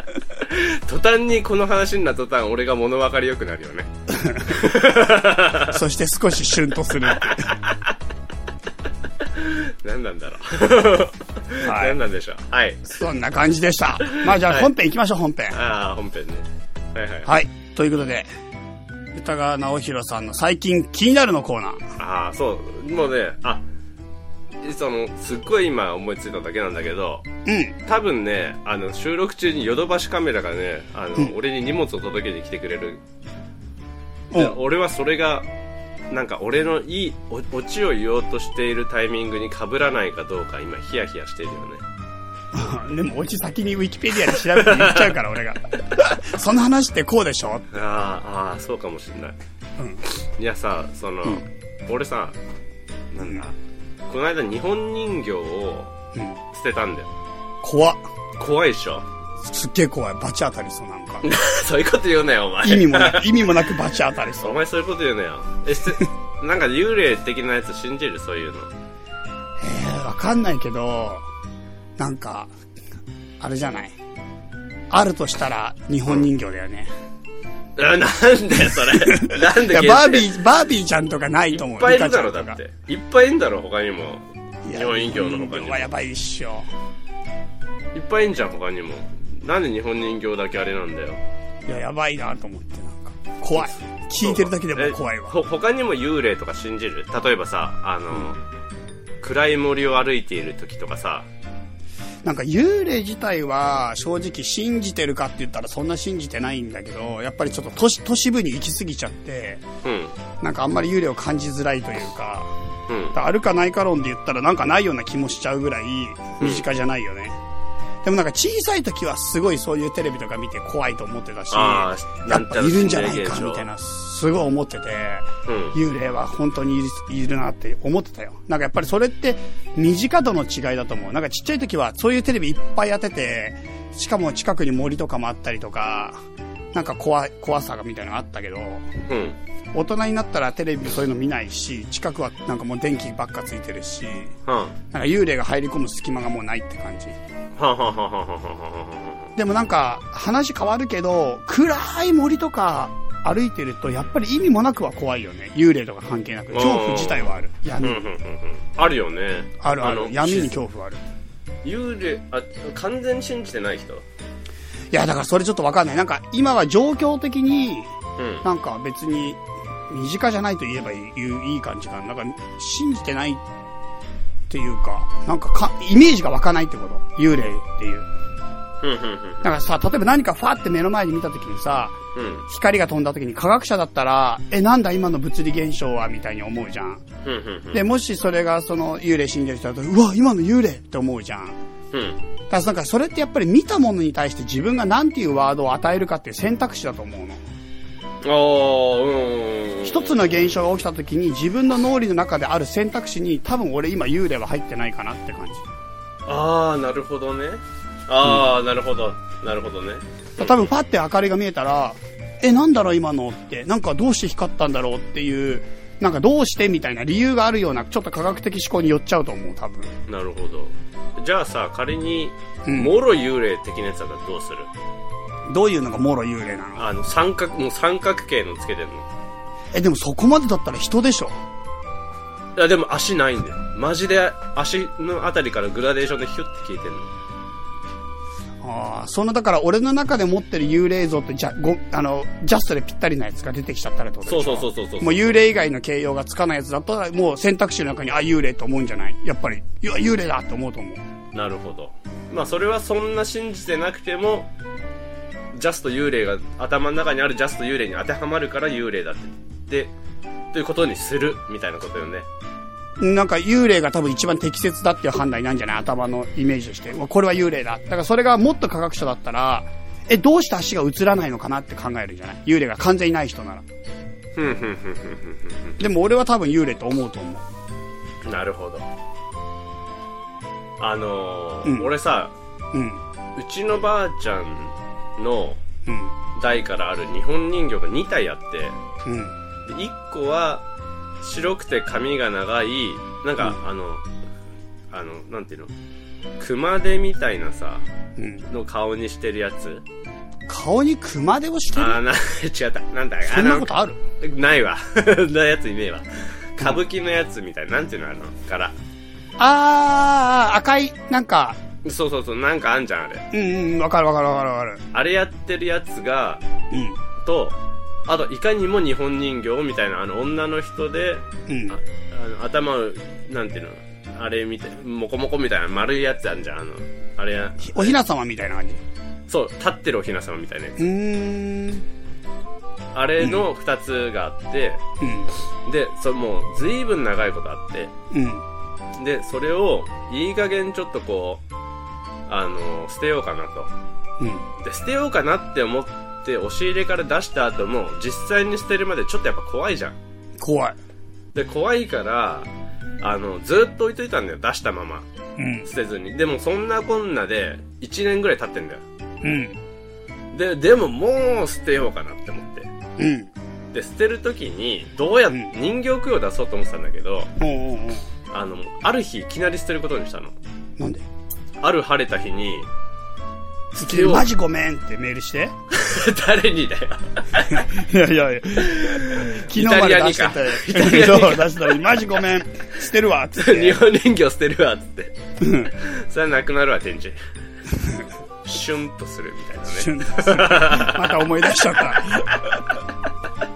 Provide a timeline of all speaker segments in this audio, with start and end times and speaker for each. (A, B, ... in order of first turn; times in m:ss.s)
0:00.4-0:03.9 A
0:04.1-0:04.7 B
0:04.5-0:05.8 A
0:05.5-0:07.6 B
0:09.2-0:12.8 A
0:11.6-0:12.0 B
0:12.8-0:15.6 B
0:14.1-0:14.7 A
0:15.5-0:17.3 A
0:17.2-0:18.3 B
0:19.1-0:21.9 B
0:22.0-0:23.6 A
0:24.6-0:27.3 A
0:27.4-0:27.7 B
0:27.8-0:33.0 A
0:34.3-0:35.5 A
0:36.1-0:41.8 A
0:42.5-0:47.7 B
0:44.6-0:45.1 A
0:47.7-0:49.4 A
0:49.8-0:50.0 B
0:50.1-0:52.4 A
0:53.1-0:53.6 A
0:54.1-0:55.9 A
0:56.1-0:56.4 B
0:56.5-0:57.1 A
0:57.6-0:58.0 B
0:58.4-0:59.1 A
0:59.4-1:01.3 B
1:01.2-1:03.5 A
1:02.6-1:04.6 B
1:04.4-1:08.7 A
1:09.6-1:11.2 B
1:12.0-1:12.5 B
1:13.4-1:14.0 B
1:14.9-1:16.9 B
1:17.8-1:20.4 A
1:18.7-1:22.6 B
1:21.5-1:25.9 A
1:24.6-1:26.7 B
1:27.9-1:31.2 A
1:31.7-1:35.4 B
1:33.5-1:38.4 A
1:39.2-1:41.3 A
1:42.2-1:49.6 B
1:49.8-1:50.1 A
1:50.4-1:52.5 B
1:52.9-1:53.2 A
1:53.1-1:57.4 B
1:56.4-1:56.7 A
1:58.0-2:16.2 B
2:01.5-2:03.7 A
2:05.4-2:05.8 A
2:16.7-2:18.9 B
2:19.1-2:19.4 A
2:19.7-2:24.4 B
2:24.4-2:24.8 A
2:24.9-2:27.2 B
2:27.6-2:29.3 A
2:29.4-2:38.0 B
2:36.5-2:40.5 A
2:39.6-2:41.0 B
2:41.6-2:44.0 A
2:44.9-2:53.4 B
2:48.2-2:48.4 A
2:54.5-2:58.1 B
2:58.8-2:59.4 A
2:59.4-3:07.0 B
3:02.1-3:02.4 A
3:07.2-3:07.8 A
3:07.7-3:11.6 B
3:11.9-3:12.2 A
3:12.5-3:17.4 B
3:18.2-3:20.6 A
3:19.8-3:25.6 B
3:26.2-3:30.7 A
3:30.4-3:39.9 B
3:40.1-3:44.7 A
3:42.6-3:42.9 B
3:45.5-3:46.9 B
3:46.8-3:49.1 A
3:49.7-3:51.4 B
3:52.6-3:57.1 A
3:58.6-4:11.0 B
4:04.2-4:05.4 A
4:11.3-4:14.5 A
4:15.5-4:19.9 A
4:20.5-4:22.3 A
4:23.0-4:33.6 B
4:34.4-4:35.8 A
4:35.8-4:37.4 B
4:38.2-4:38.9 A
4:40.8-4:42.3 A
4:41.6-4:41.9 B
4:42.7-4:43.0 B
4:43.4-4:45.6 A
4:45.9-4:46.1 B
4:46.4-4:48.8 A
4:49.0-4:49.3 B
4:49.6-4:50.6 A
4:51.2-4:54.1 A
4:54.9-4:55.7 A
4:56.4-4:57.9 A
4:58.2-4:58.5 B
4:58.5-4:59.8 A
5:00.5-5:02.0 B
5:01.7-5:08.8 A
5:03.3-5:04.0 B
5:09.4-5:11.6 B
5:11.8-5:13.3 A
5:13.3-5:14.8 B
5:14.9-5:16.4 A
5:16.7-5:17.0 B
5:17.2-5:28.0 A
5:21.5-5:21.8 B
5:27.6-5:28.8 B
5:29.3-5:30.8 A
5:30.8-5:31.8 B
5:32.9-5:34.8 A
5:33.2-5:33.4 B
5:35.0-5:35.3 B
5:35.6-5:37.9 A
5:38.1-5:38.4 B
5:38.9-5:41.4 A
5:42.3-5:43.7 A
5:44.2-5:44.4 B
5:44.6-5:50.0 A
5:50.4-5:50.8 B
5:51.3-5:52.5 A
5:53.0-5:55.1 A
5:55.4-5:55.7 B
5:55.6-5:58.8 A
5:59.2-5:59.6 B
6:00.3-6:02.7 A
6:03.0-6:03.3 B
6:03.7-6:07.3 A
6:07.4-6:08.1 B
6:08.3-6:10.3 A
6:10.8-6:11.0 B
6:11.6-6:12.7 A
6:13.7-6:14.3 A
6:13.8-6:15.5 B
6:15.7-6:17.6 A
6:17.4-6:23.8 B
6:18.6-6:21.8 A
6:23.4-6:25.1 A
6:25.4-6:25.7 B
6:25.7-6:27.2 A
6:28.4-6:31.3 A
6:29.7-6:32.6 B